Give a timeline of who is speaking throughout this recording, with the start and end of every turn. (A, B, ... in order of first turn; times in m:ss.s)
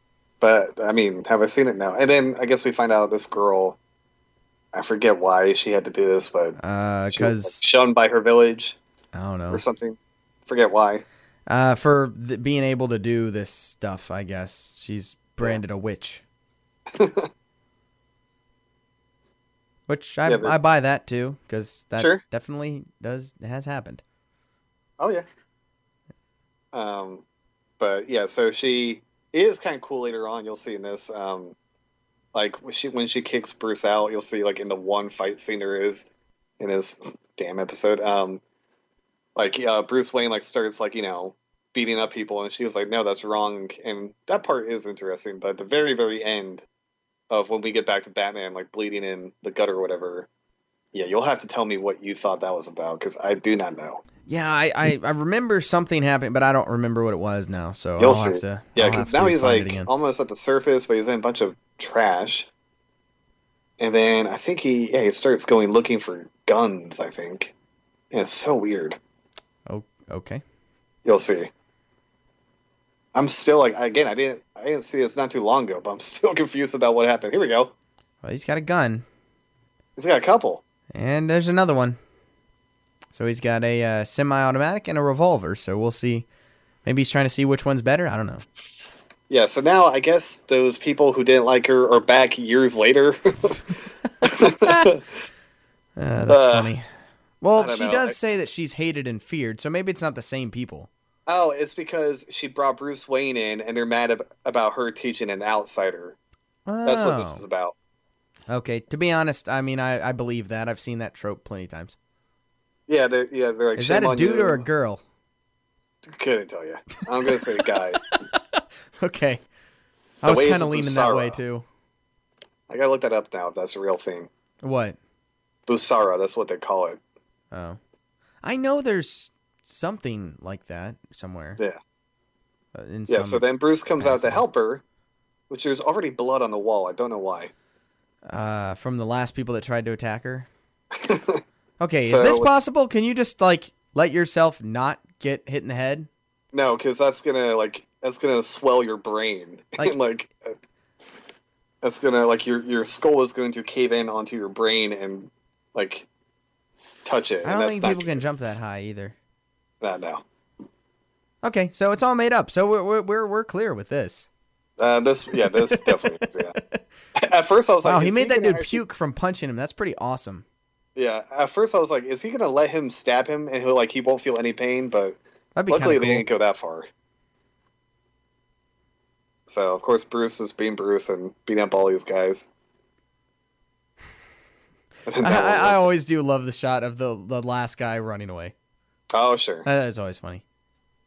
0:00.4-0:03.8 A
0:04.7-0:06.6 A
0:06.6-0:07.6 B
0:07.1-0:08.8 A
0:09.1-0:09.6 B
0:09.5-0:11.0 A
0:11.5-0:16.2 B
0:16.9-0:17.3 A
0:19.9-0:24.0 B
0:20.2-0:20.6 A
0:25.0-0:25.2 A
0:26.7-0:27.2 A
0:27.8-0:31.6 A
0:32.3-0:38.4 A
0:39.4-0:46.6 A
0:47.3-0:50.3 A
0:50.9-0:54.0 A
0:54.3-0:59.9 B
0:58.0-1:02.5 A
1:03.8-1:07.5 A
1:08.1-1:09.0 A
1:09.7-1:10.4 B
1:11.0-1:11.5 A
1:13.2-1:17.7 A
1:18.2-1:19.0 B
1:20.0-1:20.6 A
1:20.9-1:22.0 B
1:23.1-1:26.3 B
1:26.8-1:28.4 B
1:29.3-1:33.6 A
1:34.2-1:35.1 A
1:34.6-1:34.9 B
1:36.0-1:36.9 B
1:36.3-1:36.7 A
1:37.4-1:40.9 B
1:37.6-1:38.2 A
1:41.3-1:46.2 A
1:46.7-1:47.4 B
1:46.8-1:47.8 A
1:48.5-1:52.0 B
1:52.9-1:54.6 A
1:53.8-1:55.0 B
1:56.0-1:58.0 A
1:57.2-1:59.4 B
2:00.2-2:01.7 B
2:00.2-2:01.4 A
2:02.7-2:04.3 A
2:04.6-2:05.0 B
2:05.7-2:07.0 A
2:07.5-2:07.8 B
2:08.4-2:11.6 B
2:12.8-2:13.4 B
2:13.1-2:14.8 A
2:14.0-2:14.4 B
2:15.5-2:17.5 A
2:18.2-2:20.5 B
2:20.9-2:21.4 A
2:21.8-2:26.1 B
2:22.0-2:22.5 A
2:26.5-2:30.6 A
2:31.8-2:36.1 A
2:37.0-2:38.2 A
2:37.4-2:39.2 B
2:39.8-2:40.2 A
2:41.4-2:44.3 B
2:44.8-2:46.6 A
2:45.4-2:46.8 B
2:47.2-2:48.8 A
2:47.8-2:50.4 B
2:51.0-2:55.2 A
2:55.6-2:56.3 B
2:55.7-2:56.9 A
2:59.5-3:02.5 A
3:05.1-3:05.9 A
3:05.2-3:08.5 B
3:09.1-3:09.7 A
3:09.6-3:10.4 B